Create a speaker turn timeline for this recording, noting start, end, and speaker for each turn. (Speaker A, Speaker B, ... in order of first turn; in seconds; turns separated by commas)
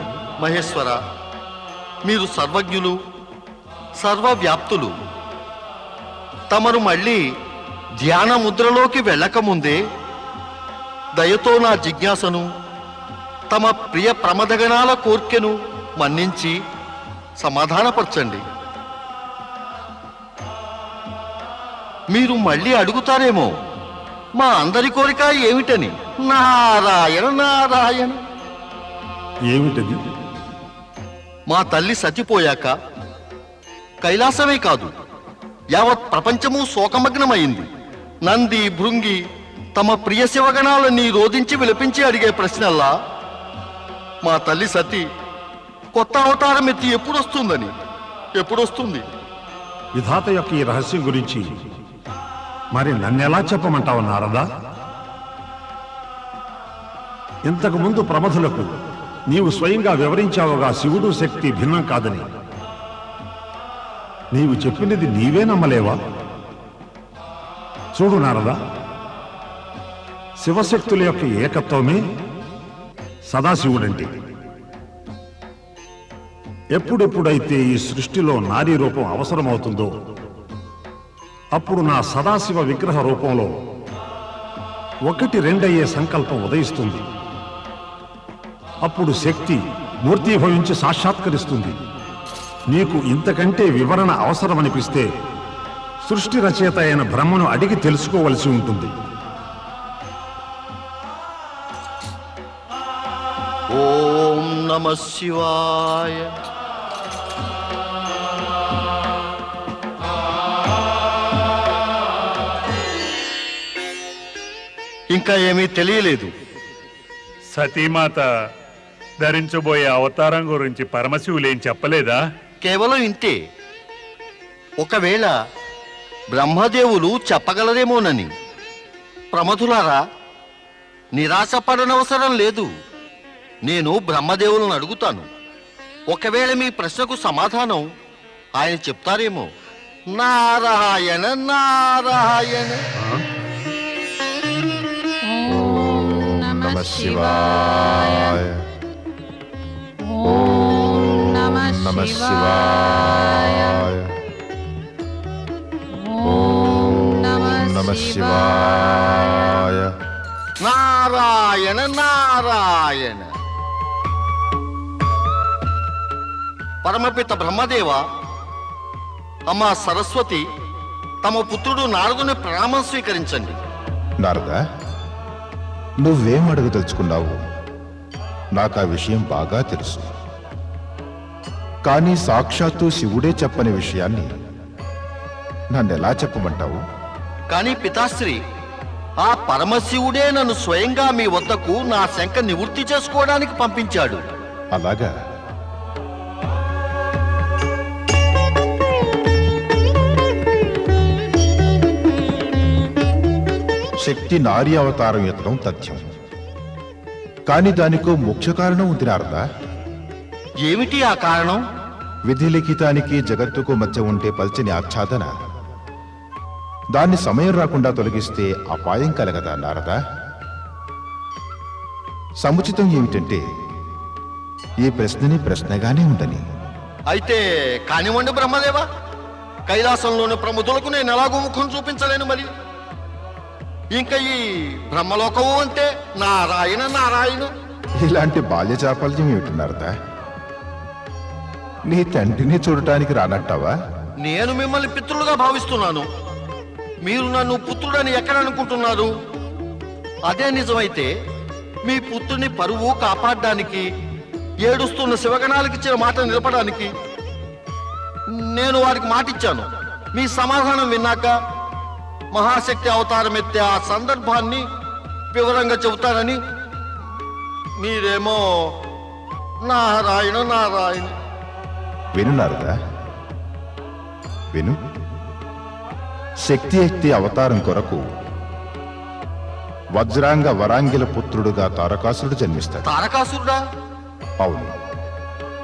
Speaker A: 0.4-1.0, Speaker A: 2.0-3.0, Speaker A: 4.0-4.9, Speaker A: 6.5-7.2, Speaker A: 8.0-9.8, Speaker A: 11.2-12.5, Speaker A: 13.5-16.6, Speaker A: 17.4-18.4, Speaker A: 22.1-23.5, Speaker A: 24.4-28.2, Speaker B: 29.5-30.0, Speaker A: 31.5-32.7, Speaker A: 34.0-34.9, Speaker A: 35.7-37.7, Speaker A: 38.2-39.2, Speaker A: 39.8-42.9, Speaker A: 44.2-45.1, Speaker A: 45.9-47.7, Speaker A: 48.4-49.0, Speaker B: 49.9-51.5, Speaker B: 52.7-54.5, Speaker B: 57.5-58.7, Speaker B: 59.3-62.2, Speaker B: 64.3-66.0, Speaker B: 67.9-68.6, Speaker B: 70.4-72.0, Speaker B: 73.3-74.1, Speaker B: 76.7-79.9, Speaker B: 81.5-83.5, Speaker B: 85.0-87.0, Speaker B: 88.8-91.8, Speaker B: 92.7-95.1, Speaker B: 96.0-98.9, Speaker A: 103.7-106.3, Speaker A: 115.1-116.3, Speaker C: 117.5-118.3, Speaker C: 119.2-122.2, Speaker A: 122.6-123.4, Speaker A: 124.8-125.3, Speaker A: 126.3-128.3, Speaker A: 129.3-130.0, Speaker A: 131.1-132.7, Speaker A: 133.6-135.3, Speaker A: 136.1-137.8, Speaker A: 138.6-139.5, Speaker A: 140.1-142.8, Speaker C: 145.2-148.4, Speaker D: 145.4-148.6, Speaker C: 150.0-153.8, Speaker D: 150.2-154.1, Speaker C: 156.0-159.1, Speaker D: 156.2-159.9, Speaker A: 160.6-163.3, Speaker A: 166.8-168.0, Speaker A: 169.5-170.4, Speaker A: 171.2-173.6, Speaker D: 174.2-174.6, Speaker D: 176.0-177.4, Speaker D: 178.6-180.1, Speaker D: 181.8-184.3, Speaker D: 185.7-186.8, Speaker A: 187.5-188.4, Speaker A: 189.2-194.2, Speaker D: 194.7-195.1, Speaker D: 204.0-206.0, Speaker D: 207.5-209.4, Speaker A: 210.6-211.6, Speaker D: 212.3-215.3, Speaker D: 216.9-220.0, Speaker D: 222.4-223.4, Speaker D: 224.8-226.4, Speaker A: 227.1-228.8, Speaker A: 229.7-232.5, Speaker A: 233.9-237.5, Speaker D: 238.0-239.9, Speaker D: 241.9-243.7, Speaker A: 244.2-246.0, Speaker A: 247.0-249.1, Speaker A: 250.3-251.1, Speaker A: 251.8-253.9, Speaker A: 254.6-256.9, Speaker A: 258.3-261.4, Speaker A: 262.3-264.6, Speaker A: 265.3-266.4, Speaker A: 267.8-268.7, Speaker A: 269.6-271.1, Speaker D: 272.1-272.8, Speaker D: 274.5-274.8, Speaker D: 276.4-278.0, Speaker D: 279.9-282.8, Speaker A: 282.8-283.6, Speaker D: 284.4-284.7